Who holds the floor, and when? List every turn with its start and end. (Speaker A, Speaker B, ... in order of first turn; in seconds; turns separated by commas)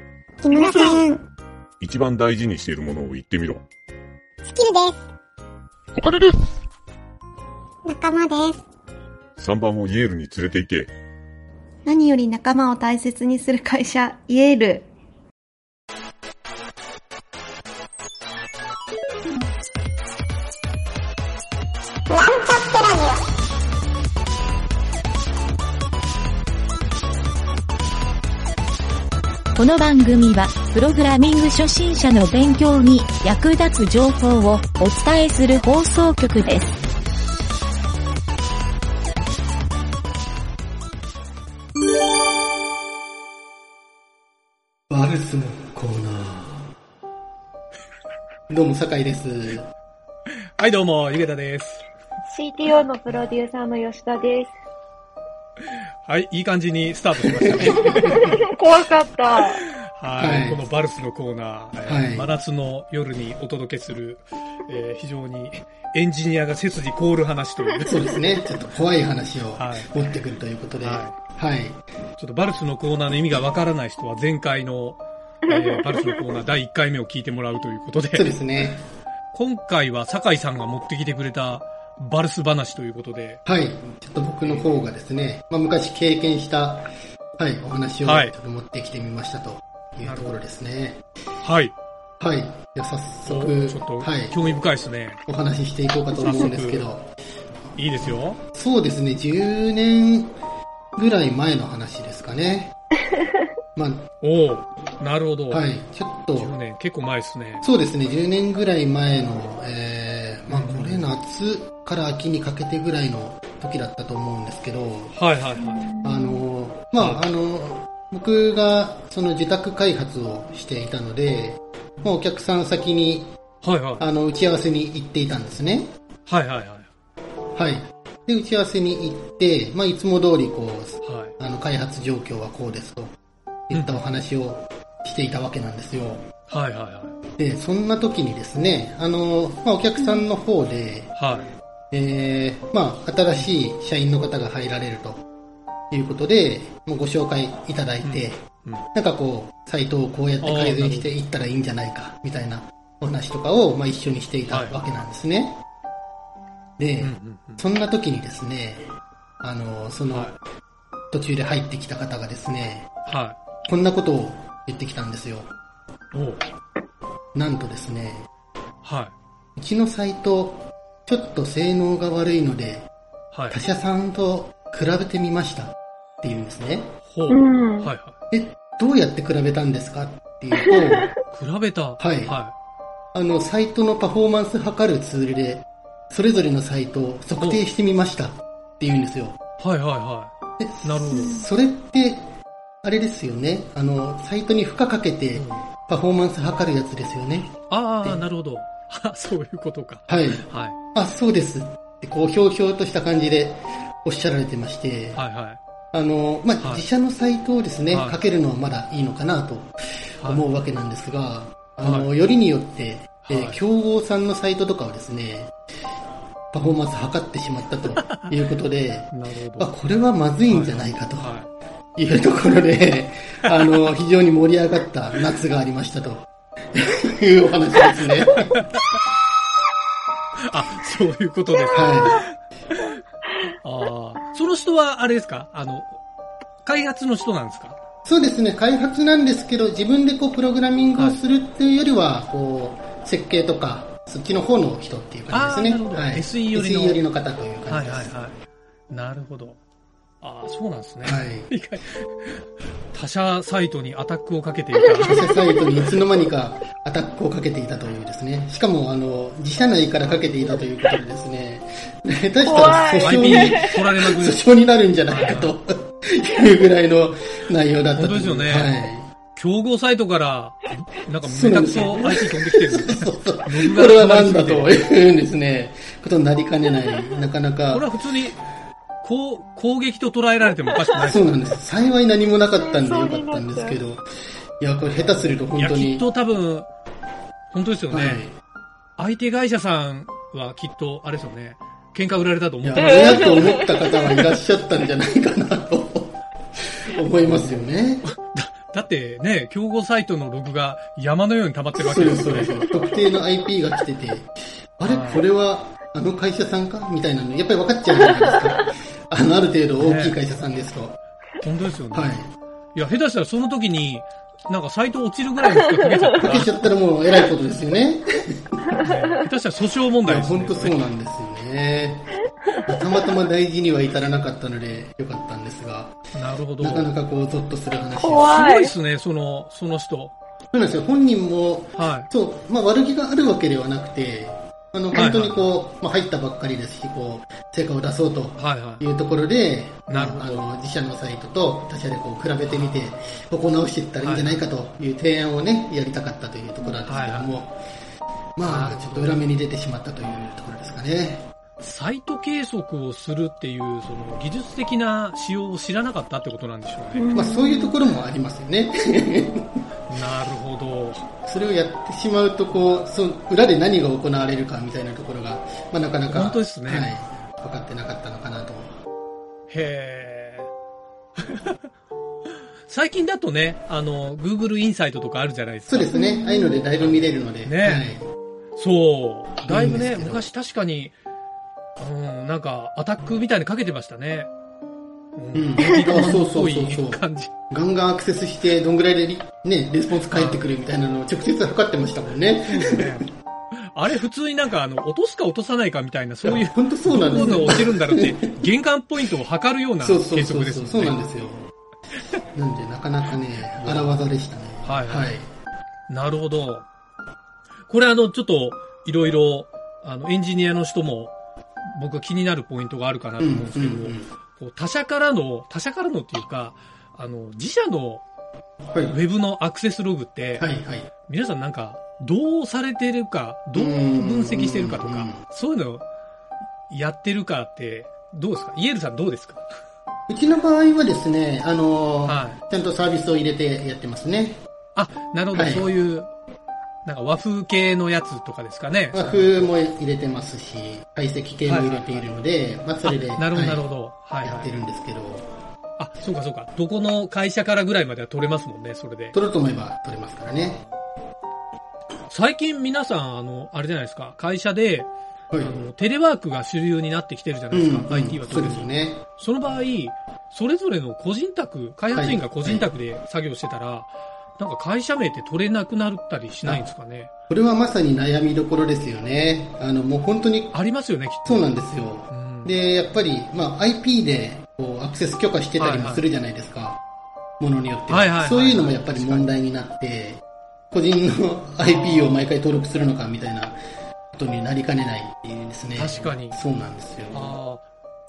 Speaker A: 0.4-1.2, Speaker B: 1.8-3.6, Speaker A: 4.5-5.0, Speaker A: 7.9-8.6, Speaker B: 9.4-10.9, Speaker C: 11.9-14.9, Speaker A: 22.4-23.0, Speaker D: 29.6-36.7, Speaker E: 44.9-46.7, Speaker E: 48.5-49.7, Speaker F: 50.6-51.9, Speaker G: 52.3-54.5, Speaker F: 56.0-58.4, Speaker E: 57.4-58.0, Speaker G: 58.1-59.6, Speaker F: 59.7-68.1, Speaker E: 60.2-60.7, Speaker E: 61.9-62.3, Speaker E: 67.8-71.8, Speaker F: 69.5-70.2, Speaker F: 70.8-71.1, Speaker F: 72.2-78.3, Speaker E: 78.1-78.8, Speaker F: 79.3-83.4, Speaker E: 83.5-91.0, Speaker F: 84.4-84.8, Speaker F: 88.0-88.3, Speaker F: 90.0-90.4, Speaker F: 91.4-91.7, Speaker E: 92.2-94.4, Speaker F: 93.3-95.2, Speaker E: 95.3-97.1, Speaker F: 96.2-96.9, Speaker F: 97.8-98.4, Speaker E: 98.5-100.3, Speaker E: 101.0-102.8, Speaker E: 103.8-104.0, Speaker F: 104.2-105.6, Speaker E: 105.5-106.5, Speaker F: 106.4-107.7, Speaker E: 107.6-115.2, Speaker F: 110.5-111.1, Speaker F: 115.1-115.9, Speaker G: 115.6-116.4, Speaker E: 116.0-123.3, Speaker F: 117.0-117.2, Speaker F: 123.6-124.1, Speaker E: 124.0-125.9, Speaker F: 126.3-126.9, Speaker E: 127.5-133.1, Speaker F: 131.0-131.3, Speaker E: 133.7-136.2, Speaker F: 133.7-134.0, Speaker F: 136.5-137.1, Speaker E: 137.4-141.2, Speaker F: 141.2-141.5, Speaker E: 141.9-145.2, Speaker E: 145.9-148.4, Speaker F: 148.0-148.9, Speaker E: 148.9-155.6, Speaker F: 150.4-151.1, Speaker F: 154.5-154.8, Speaker E: 156.8-158.9, Speaker F: 157.0-157.7, Speaker E: 159.4-160.4, Speaker F: 160.1-160.4, Speaker E: 161.1-162.9, Speaker F: 163.1-163.4, Speaker E: 163.7-165.5, Speaker F: 166.1-166.4, Speaker E: 167.3-168.3, Speaker F: 168.8-169.1, Speaker E: 169.6-172.9, Speaker F: 173.3-173.6, Speaker E: 173.5-176.9, Speaker F: 177.1-178.2, Speaker G: 177.3-177.9, Speaker E: 178.3-181.1, Speaker F: 181.3-182.5, Speaker E: 182.0-182.3, Speaker E: 183.1-189.4, Speaker F: 187.4-187.6, Speaker F: 189.6-191.4, Speaker E: 190.6-192.2, Speaker E: 192.8-198.2, Speaker F: 195.3-195.7, Speaker F: 197.7-200.8, Speaker E: 200.1-200.4, Speaker E: 200.9-205.2, Speaker F: 205.2-205.6, Speaker E: 205.9-215.5, Speaker F: 206.6-206.9, Speaker F: 207.9-208.2, Speaker F: 211.8-212.1, Speaker F: 213.2-213.6, Speaker E: 216.5-221.3, Speaker F: 218.0-218.3, Speaker F: 219.1-219.7, Speaker F: 220.5-221.5, Speaker E: 222.0-228.5, Speaker F: 223.4-223.9, Speaker F: 228.3-229.0, Speaker F: 230.4-232.9, Speaker E: 231.7-232.2, Speaker F: 233.6-236.0, Speaker F: 236.6-237.8, Speaker E: 238.1-248.2, Speaker F: 245.3-247.0, Speaker F: 247.7-249.6, Speaker F: 250.2-255.2, Speaker E: 251.0-251.5, Speaker E: 255.0-269.1, Speaker F: 260.0-260.3, Speaker G: 262.4-263.6, Speaker F: 263.0-264.4, Speaker F: 265.1-265.6, Speaker F: 267.9-268.8, Speaker F: 269.4-274.8, Speaker E: 271.2-277.9, Speaker F: 277.7-278.4, Speaker F: 279.0-281.6, Speaker E: 281.0-284.0, Speaker G: 282.6-283.8, Speaker E: 284.6-286.1, Speaker F: 284.9-286.7, Speaker F: 287.5-288.3, Speaker E: 287.9-288.4, Speaker F: 289.0-293.6, Speaker E: 292.6-298.1, Speaker F: 298.0-302.7, Speaker E: 301.8-311.0, Speaker F: 304.8-305.2, Speaker F: 309.8-310.2, Speaker F: 311.4-312.2, Speaker E: 311.9-312.3, Speaker F: 312.8-316.7, Speaker E: 316.2-318.8, Speaker F: 318.8-320.8, Speaker E: 320.1-326.0, Speaker F: 326.1-326.9, Speaker E: 326.6-328.4, Speaker G: 328.0-328.7, Speaker F: 328.3-330.1, Speaker E: 330.5-347.5, Speaker F: 331.8-332.1, Speaker F: 334.9-335.5, Speaker F: 338.4-338.8, Speaker F: 339.9-340.4, Speaker F: 342.5-342.9, Speaker F: 344.0-344.4, Speaker F: 346.9-347.3, Speaker E: 348.4-351.3, Speaker F: 348.4-349.2, Speaker F: 351.6-357.1, Speaker G: 357.0-357.8, Speaker E: 357.1-359.6, Speaker F: 359.9-361.1, Speaker E: 361.2-368.8, Speaker F: 366.1-366.9, Speaker F: 369.5-370.5, Speaker F: 371.2-371.6, Speaker F: 372.7-375.9, Speaker E: 375.7-378.1, Speaker G: 376.0-376.4, Speaker F: 376.8-377.9, Speaker F: 378.6-380.9, Speaker E: 379.4-380.2, Speaker F: 381.8-384.3, Speaker F: 385.2-387.3, Speaker E: 385.3-393.1, Speaker F: 390.1-390.4, Speaker F: 392.5-401.0, Speaker E: 396.2-398.3, Speaker E: 399.8-401.5, Speaker E: 402.3-405.3, Speaker F: 403.6-404.0, Speaker F: 404.6-405.2, Speaker F: 405.9-406.7, Speaker F: 407.7-418.0, Speaker E: 413.2-414.1, Speaker E: 418.7-419.0, Speaker F: 418.9-420.5, Speaker E: 420.4-420.9, Speaker F: 421.1-425.9, Speaker E: 423.5-425.2, Speaker F: 426.7-429.5, Speaker E: 430.1-434.4, Speaker F: 432.1-432.4, Speaker F: 434.8-436.1, Speaker E: 435.3-435.7, Speaker F: 436.9-439.5, Speaker E: 438.9-443.7, Speaker F: 441.5-442.1, Speaker F: 442.8-444.6, Speaker E: 444.2-445.3, Speaker F: 445.8-449.2, Speaker E: 449.1-450.6, Speaker F: 450.4-450.7, Speaker F: 452.1-454.9, Speaker E: 455.3-455.6, Speaker F: 455.4-467.1, Speaker E: 457.5-459.0, Speaker E: 461.9-462.7, Speaker E: 467.3-470.6, Speaker F: 470.5-471.5, Speaker E: 471.3-476.8, Speaker F: 472.1-472.5, Speaker F: 475.6-476.1, Speaker E: 477.4-483.6, Speaker F: 477.9-479.3, Speaker F: 481.6-482.3, Speaker E: 484.1-487.3, Speaker F: 485.8-486.4, Speaker F: 487.1-487.6